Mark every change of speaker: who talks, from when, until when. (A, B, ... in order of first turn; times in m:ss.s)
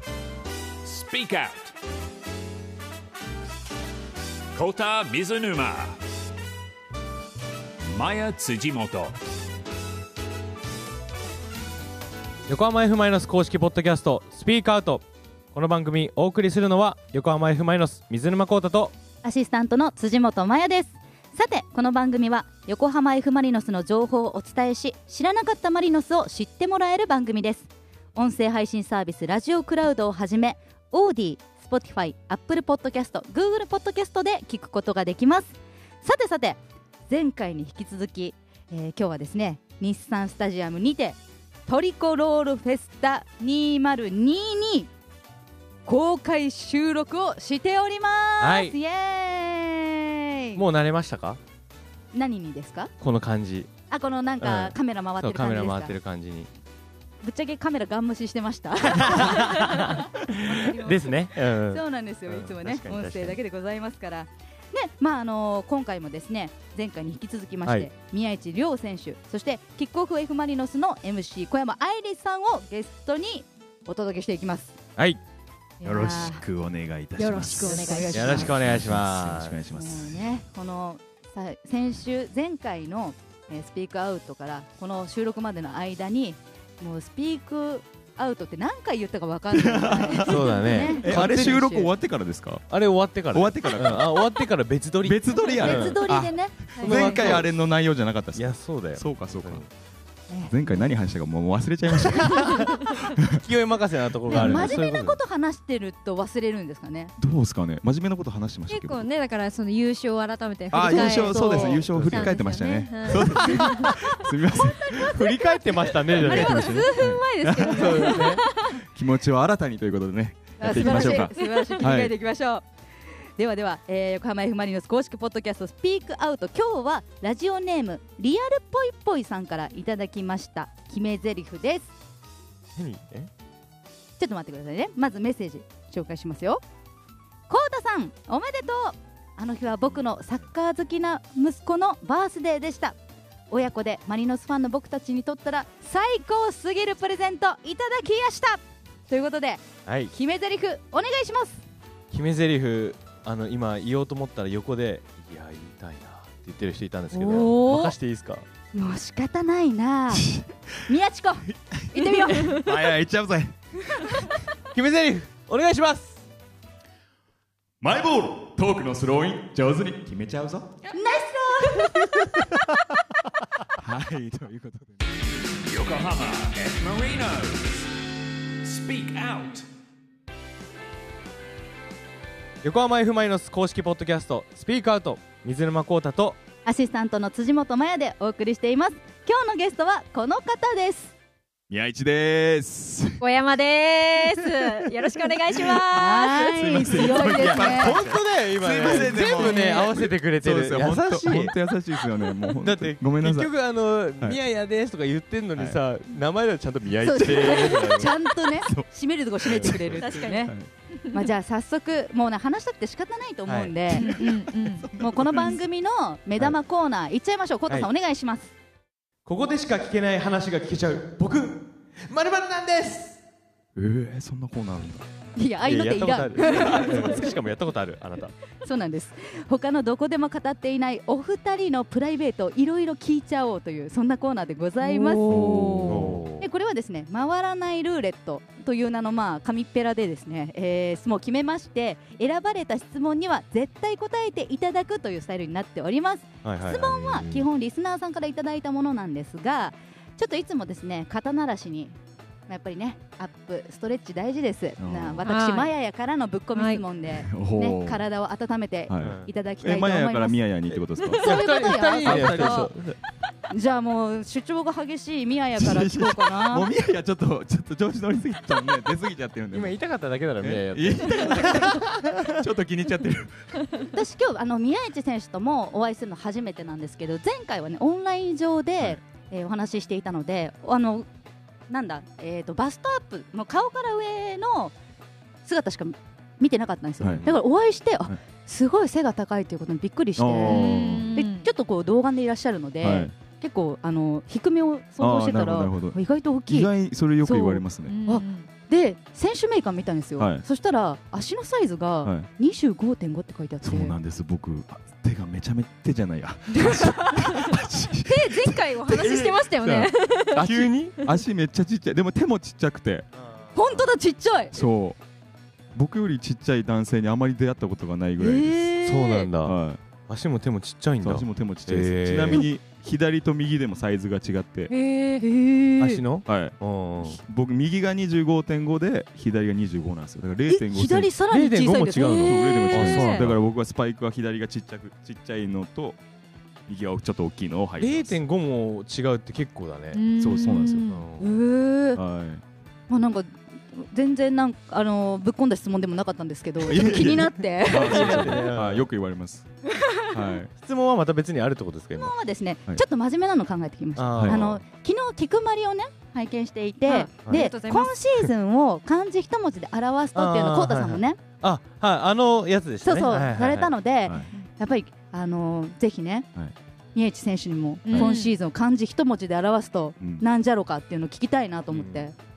0:00.8-0:01.7 A
0:04.5-0:06.0 A
0:07.8-0:09.2 A
0:12.5-0:18.9 B
0:19.2-0:44.9 C
0:45.8-0:50.6 C
0:48.4-0:48.8 B
0:50.5-0:51.4 B
0:52.1-0:52.9 C
0:53.0-0:53.7 B
0:53.9-0:56.0 C
0:54.4-0:56.5 B
0:57.2-1:00.9 C
0:58.9-1:03.4 B
1:00.5-1:00.9 D
1:01.7-1:14.8 C
1:07.6-1:07.9 B
1:15.8-1:16.4 C
1:15.8-1:20.2 E
1:17.2-1:18.4 D
1:17.6-1:18.5 C
1:18.1-1:19.6 B
1:19.7-1:31.9 C
1:29.5-1:32.7 E
1:30.2-1:31.7 B
1:32.7-1:36.0 B
1:33.3-1:34.3 E
1:35.0-1:39.6 E
1:35.6-1:37.4 C
1:36.8-1:37.5 B
1:38.3-1:39.7 B
1:40.3-1:40.8 C
1:40.5-1:43.4 E
1:42.2-1:42.7 B
1:43.3-1:45.2 B
1:44.3-1:44.8 E
1:44.3-1:47.1 C
1:47.2-1:49.1 E
1:48.7-1:54.0 D
1:50.7-1:55.2 E
1:50.8-1:51.8 C
1:51.9-1:52.2 B
1:55.0-1:56.8 B
1:56.1-2:02.1 E
1:56.2-1:58.8 D
1:57.7-1:58.4 B
2:00.6-2:02.7 C
2:00.6-2:01.9 D
2:03.4-2:11.9 C
2:12.8-2:13.3 B
2:14.2-2:16.6 C
2:17.5-2:23.0 C
2:23.5-2:31.6 C
2:29.8-2:30.1 B
2:32.1-2:38.4 B
2:37.1-2:37.9 C
2:38.7-2:42.7 C
2:40.1-2:40.5 E
2:42.0-2:44.3 E
2:44.7-2:46.2 B
2:47.8-2:50.7 E
2:50.9-2:52.1 C
2:52.0-2:52.3 B
2:53.8-2:55.2 E
2:55.6-2:57.9 A
2:58.6-2:59.7 A
3:02.6-3:06.4 B
3:06.6-3:11.1 C
3:11.7-3:13.2 E
3:13.2-3:16.6 D
3:15.6-3:23.5 E
3:15.9-3:18.0 C
3:17.5-3:21.5 B
3:18.8-3:19.9 C
3:22.6-3:28.1 B
3:27.0-3:30.5 C
3:27.3-3:28.8 E
3:29.4-3:30.7 E
3:29.5-3:29.8 B
3:29.9-3:31.2 D
3:31.1-3:34.2 C
3:33.4-3:33.8 B
3:33.9-3:34.9 D
3:33.9-3:35.6 E
3:34.9-3:38.5 C
3:39.2-3:43.2 B
3:43.8-3:45.0 E
3:45.4-3:47.3 C
3:45.6-3:48.3 B
3:48.6-4:12.0 C
3:55.2-3:56.2 E
3:55.8-3:56.5 B
4:06.4-4:07.5 B
4:12.5-4:20.4 C
4:14.8-4:15.3 E
4:15.2-4:15.7 D
4:16.5-4:16.8 D
4:17.1-4:18.0 E
4:18.9-4:21.4 E
4:19.0-4:19.3 B
4:21.1-4:22.7 C
4:21.2-4:22.9 B
4:22.0-4:23.0 E
4:23.5-4:26.7 C
4:25.6-4:29.8 E
4:29.5-4:32.4 B
4:30.4-4:33.7 E
4:33.9-4:41.1 C
4:41.7-4:44.7 C
4:45.4-4:56.7 C
4:47.0-4:47.2 E
4:50.2-4:51.1 E
4:50.4-4:51.5 D
4:52.8-4:53.1 E
4:55.0-4:58.0 E
4:57.2-5:03.9 C
4:57.8-4:58.5 D
5:00.2-5:00.4 E
5:03.6-5:09.2 E
5:06.6-5:07.5 D
5:08.0-5:10.4 D
5:09.0-5:11.0 B
5:10.3-5:13.1 E
5:13.1-5:13.9 B
5:13.5-5:14.6 C
5:14.5-5:15.0 E
5:15.7-5:18.6 E
5:18.2-5:19.3 C
5:18.8-5:22.5 B
5:19.4-5:19.8 E
5:21.0-5:24.7 E
5:24.7-5:25.2 D
5:25.2-5:26.0 C
5:25.8-5:27.2 B
5:26.2-5:31.1 E
5:30.5-5:33.2 C
5:31.3-5:33.4 B
5:32.2-5:36.0 E
5:32.5-5:33.2 D
5:36.7-5:38.2 E
5:37.8-5:40.0 B
5:39.9-5:41.0 D
5:40.2-5:40.9 E
5:40.9-5:41.4 B
5:41.2-5:42.0 C
5:41.9-5:42.4 E
5:42.9-5:48.4 C
5:46.6-5:49.5 E
5:47.6-5:48.8 B
5:50.1-5:50.5 E
5:50.6-5:52.1 B
5:51.9-6:01.2 C
5:54.0-5:54.6 B
5:54.1-5:54.5 E
5:56.8-5:58.0 D
6:00.1-6:03.7 B
6:02.8-6:06.3 C
6:06.9-6:12.1 C
6:07.8-6:08.3 D
6:10.0-6:10.2 E
6:11.7-6:12.1 B